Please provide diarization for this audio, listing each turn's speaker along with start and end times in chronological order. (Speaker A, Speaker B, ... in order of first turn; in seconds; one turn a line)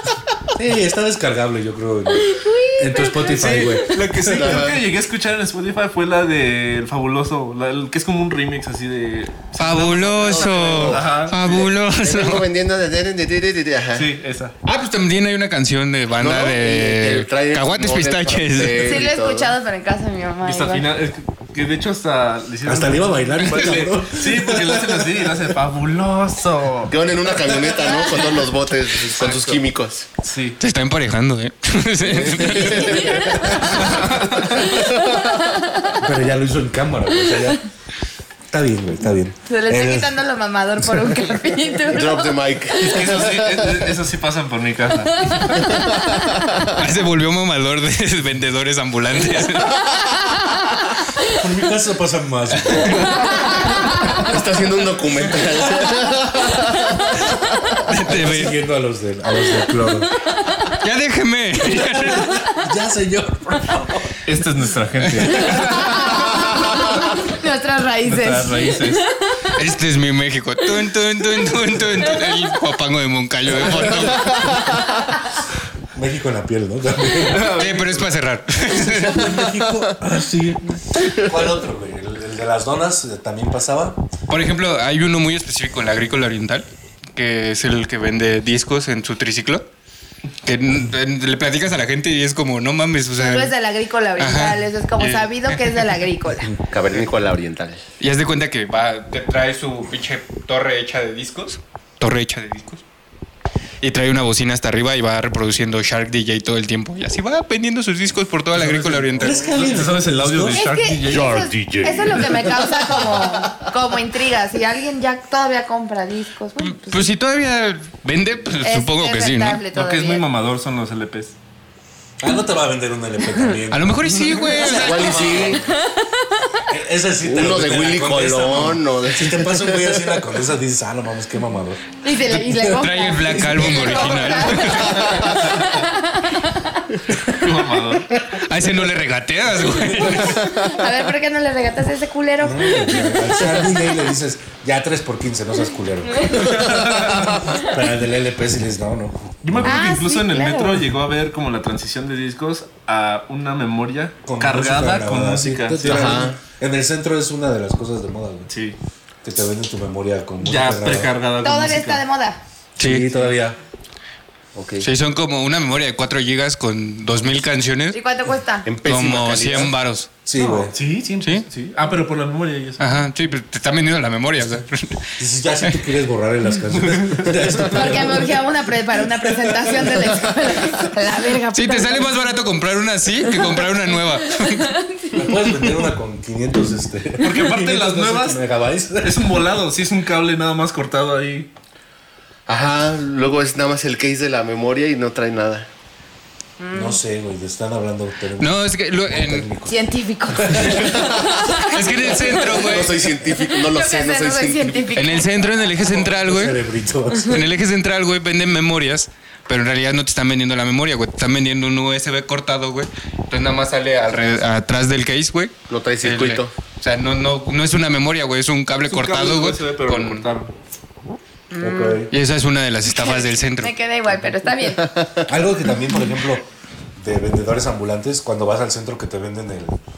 Speaker A: 0.5-4.6
Speaker B: 2.1-3.9
Speaker C: 3.3-11.7
Speaker D: 4.3-4.9
Speaker E: 9.6-12.5
Speaker D: 10.2-14.1
Speaker C: 13.9-14.5
Speaker E: 14.6-19.0
Speaker D: 16.2-19.5
Speaker B: 18.8-20.9
Speaker C: 20.4-26.9
Speaker A: 22.6-25.3
Speaker D: 26.9-30.1
Speaker C: 29.2-29.6
Speaker C: 30.2-30.6
Speaker E: 30.6-33.1
Speaker D: 32.0-33.8
Speaker A: 32.6-33.8
Speaker B: 32.8-33.8
Speaker C: 33.8-34.6
Speaker B: 34.5-36.0
Speaker D: 34.5-35.4
Speaker A: 36.0-37.6
Speaker A: 38.5-40.2
Speaker B: 39.5-42.3
Speaker A: 40.8-41.2
Speaker D: 41.9-43.9
Speaker C: 42.8-45.5
Speaker B: 45.2-46.3
Speaker D: 45.6-46.8
Speaker E: 46.7-49.8
Speaker A: 51.3-53.2
Speaker E: 52.7-53.2
Speaker B: 53.1-54.2
Speaker D: 54.1-57.2
Speaker E: 57.9-58.5
Speaker A: 58.0-60.1
Speaker B: 60.1-60.8
Speaker E: 60.8-62.4
Speaker A: 61.6-64.2
Speaker C: 64.2-66.0
Speaker B: 65.4-69.5
Speaker C: 68.0-69.0
Speaker E: 69.5-74.5
Speaker B: 72.1-72.3
Speaker D: 74.3-74.8
Speaker A: 75.9-77.6
Speaker C: 77.3-78.1
Speaker E: 77.6-79.4
Speaker A: 78.6-84.0
Speaker E: 84.3-86.6
Speaker E: 87.2-89.6
Speaker E: 90.4-93.5
Speaker B: 93.2-96.5
Speaker E: 94.2-95.8
Speaker D: 96.7-97.8
Speaker E: 98.0-102.8
Speaker E: 103.8-109.6
Speaker A: 108.6-110.6
Speaker C: 108.8-111.5
Speaker B: 110.5-117.1
Speaker D: 111.1-113.1
Speaker E: 116.7-119.6
Speaker B: 118.6-120.2
Speaker C: 119.7-121.3
Speaker A: 122.2-125.7
Speaker E: 123.7-125.5
Speaker D: 124.6-125.6
Speaker B: 125.7-126.6
Speaker A: 126.7-131.8
Speaker D: 127.2-130.3
Speaker B: 132.0-136.8
Speaker E: 132.3-135.3
Speaker A: 133.3-133.7
Speaker C: 137.3-138.1
Speaker E: 138.4-140.7
Speaker B: 140.5-144.0
Speaker A: 142.4-149.9
Speaker B: 146.1-146.6
Speaker C: 146.4-147.4
Speaker B: 147.3-147.7
Speaker C: 149.4-156.2
Speaker B: 149.6-150.9
Speaker A: 154.2-158.5
Speaker D: 155.8-156.4
Speaker C: 158.5-158.8
Speaker A: 159.2-161.1
Speaker C: 160.4-162.0
Speaker B: 161.4-162.4
Speaker E: 162.8-163.1
Speaker A: 162.8-163.6
Speaker D: 164.5-164.9
Speaker E: 164.8-168.0
Speaker B: 167.9-168.7
Speaker D: 168.6-169.7
Speaker E: 168.8-170.1
Speaker A: 170.2-170.8
Speaker C: 170.6-173.0
Speaker E: 171.2-171.5
Speaker E: 172.8-175.8
Speaker A: 175.2-180.4
Speaker C: 176.8-177.5
Speaker B: 177.7-182.3
Speaker E: 181.5-184.7
Speaker B: 183.2-185.3
Speaker A: 185.1-189.4
Speaker C: 187.2-188.4
Speaker C: 189.0-191.5
Speaker D: 192.5-195.7
Speaker B: 196.6-197.0
Speaker A: 196.7-201.0
Speaker E: 198.4-199.4
Speaker B: 199.7-202.8
Speaker E: 201.6-203.0
Speaker D: 202.4-204.9
Speaker B: 203.4-205.5
Speaker E: 204.9-206.6
Speaker A: 205.8-207.5
Speaker E: 207.2-220.3
Speaker D: 215.7-216.5
Speaker C: 218.9-220.5
Speaker B: 221.5-222.1
Speaker A: 221.6-222.1
Speaker E: 222.1-223.7
Speaker B: 222.9-224.8
Speaker D: 224.6-225.3
Speaker A: 225.3-229.8